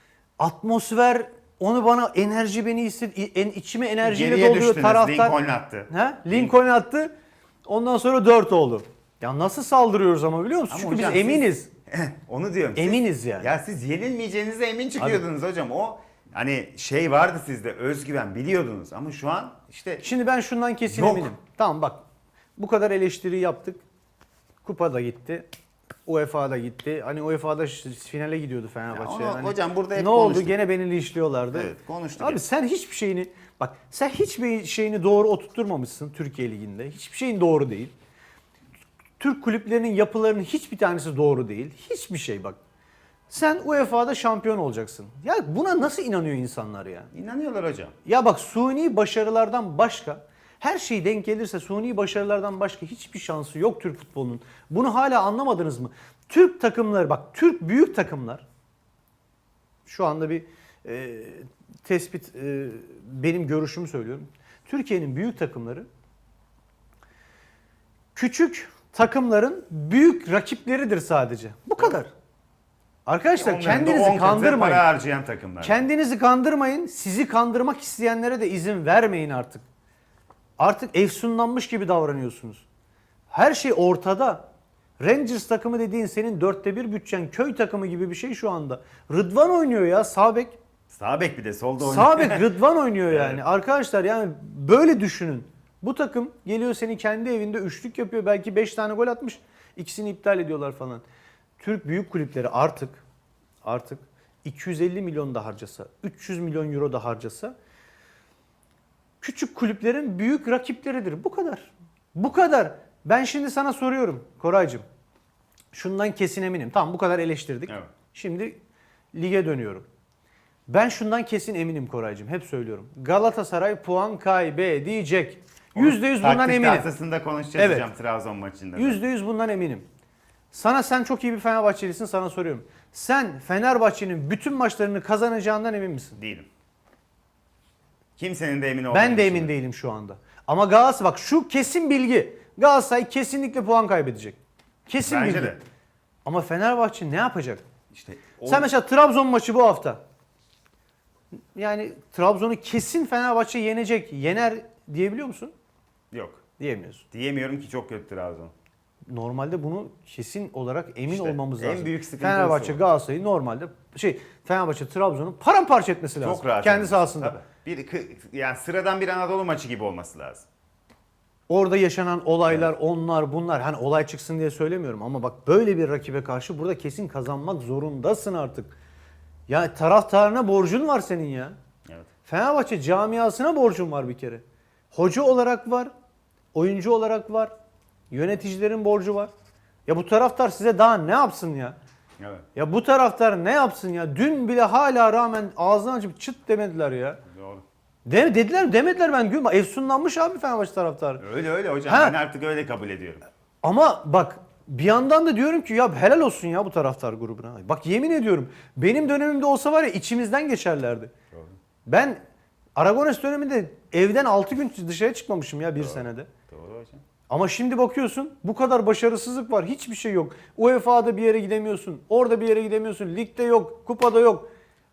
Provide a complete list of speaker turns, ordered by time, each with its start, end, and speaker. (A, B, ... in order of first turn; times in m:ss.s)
0:00.4-0:05.3 A
0:04.0-0:06.5 B
0:05.9-0:07.1 A
0:07.6-0:11.7 A
0:10.7-0:20.0 B
0:12.8-0:13.5 A
0:20.0-0:22.0 A
0:20.9-0:21.3 B
0:22.6-0:23.8 A
0:24.6-0:25.5 A
0:26.0-0:37.9 A
0:28.9-0:30.6 B
0:31.5-0:32.4 B
0:39.2-0:42.6 A
0:43.3-0:47.1 A
0:47.1-0:47.9 B
0:48.0-0:58.4 A
0:59.8-1:05.9 A
1:08.1-1:12.1 A
1:13.0-1:14.8 A
1:13.4-1:15.8 B
1:15.6-1:19.6 A
1:20.6-1:22.6 A
1:23.3-1:24.5 A
1:25.0-1:30.6 A
1:30.9-1:32.5 B
1:31.8-1:41.0 A
1:33.1-1:33.4 B
1:41.6-1:43.0 A
1:43.6-1:47.5 A
1:49.2-1:54.8 A
1:55.7-1:58.6 A
1:59.1-1:59.8 A
2:00.7-2:06.9 A
2:05.7-2:09.0 B
2:07.6-2:07.9 A
2:08.8-2:09.8 A
2:10.5-2:16.2 A
2:16.2-2:16.5 B
2:18.2-2:19.5 B
2:18.9-2:25.6 A
2:25.0-2:25.6 B
2:26.2-2:27.6 A
2:27.9-2:28.7 B
2:28.4-2:30.0 A
2:31.5-2:35.5 A
2:36.1-2:36.4 B
2:36.6-2:37.0 A
2:37.1-2:38.5 B
2:39.0-2:47.3 A
2:41.1-2:42.8 B
2:46.2-2:50.4 B
2:51.5-2:58.8 A
2:59.5-3:01.5 A
3:02.2-3:05.9 A
3:06.5-3:07.5 A
3:08.1-3:09.3 A
3:09.8-3:11.8 A
3:12.2-3:12.4 B
3:12.6-3:17.2 A
3:17.3-3:17.6 B
3:18.0-3:21.2 A
3:21.2-3:23.2 B
3:21.8-3:22.2 A
3:23.6-3:31.1 A
3:31.8-3:32.2 A
3:32.8-3:36.3 A
3:35.8-3:37.0 B
3:37.3-3:44.5 A